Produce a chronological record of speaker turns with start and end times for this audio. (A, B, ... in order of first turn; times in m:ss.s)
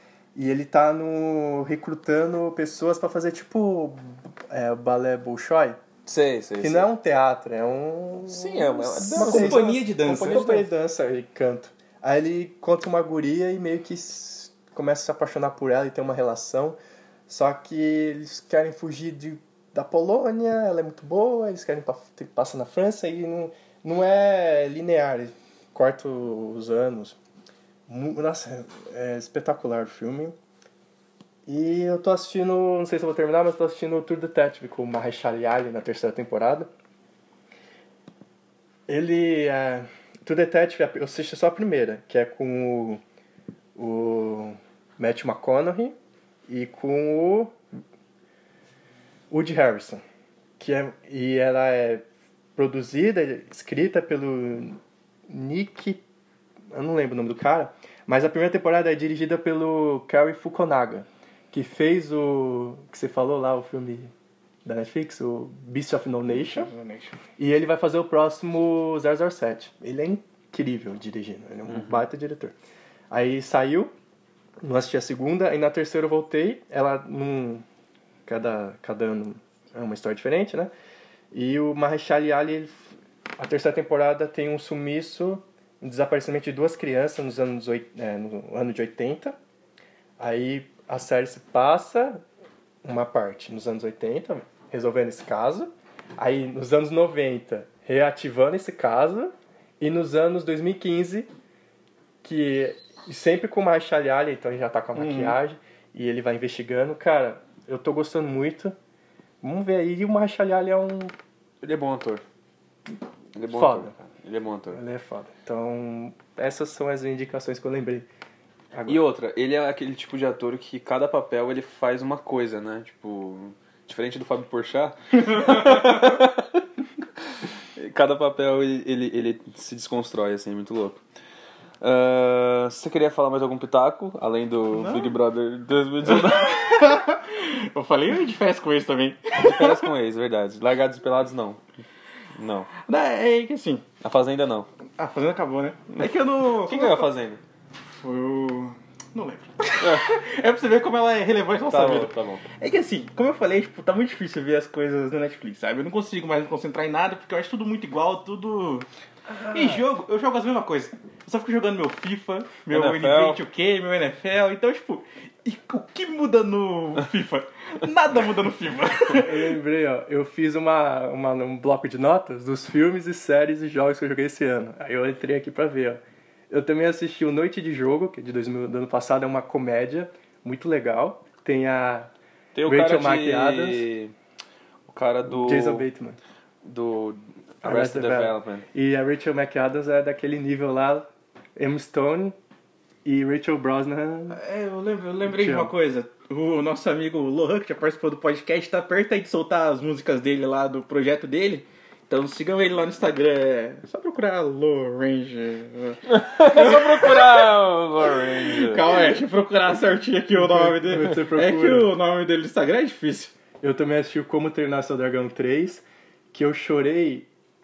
0:00.4-0:05.8 A
0:06.1-0:06.9 B
0:06.6-0:16.8 A
0:08.3-0:10.7 B
0:09.2-0:10.6 C
0:17.3-0:27.2 A
0:27.9-0:30.4 A
0:31.5-0:36.7 A
0:38.9-0:43.0 A
0:43.8-0:46.0 A
0:46.5-0:47.5 A
0:49.3-0:50.0 A
0:50.6-0:52.0 A
0:52.6-0:56.0 A
0:56.7-1:04.1 A
1:04.6-1:06.7 A
1:06.3-1:07.2 C
1:07.4-1:12.5 A
1:11.7-1:12.0 B
1:13.1-1:13.9 A
1:14.6-1:17.6 A
1:18.3-1:20.7 A
1:21.3-1:29.4 A
1:30.2-1:32.2 A
1:32.8-1:41.3 A
1:42.2-1:48.8 A
1:45.0-1:45.4 C
1:49.4-1:51.2 A
1:51.6-1:52.2 B
1:53.4-1:54.8 B
1:53.5-1:53.9 A
1:54.7-1:58.1 A
1:58.7-1:59.0 A
1:58.9-2:06.6 B
2:07.8-2:11.0 B
2:11.8-2:16.9 B
2:14.7-2:15.2 C
2:16.1-2:19.9 C
2:19.4-2:21.6 B
2:22.4-2:22.7 B
2:22.8-2:23.8 C
2:24.0-2:24.7 B
2:25.0-2:27.1 C
2:26.6-2:27.4 B
2:27.9-2:38.9 C
2:29.8-2:30.1 B
2:31.7-2:32.5 B
2:39.3-2:39.8 B
2:39.5-2:49.5 C
2:42.7-2:43.4 B
2:49.1-3:02.1 A
3:02.6-3:04.1 B
3:02.7-3:03.9 A
3:04.9-3:05.9 B
3:05.3-3:06.2 A
3:06.6-3:08.6 B
3:07.6-3:12.4 A
3:13.0-3:14.4 A
3:14.3-3:27.5 C
3:15.3-3:15.7 A
3:26.1-3:28.9 B
3:28.4-3:33.4 C
3:30.4-3:31.9 A
3:33.6-3:37.3 A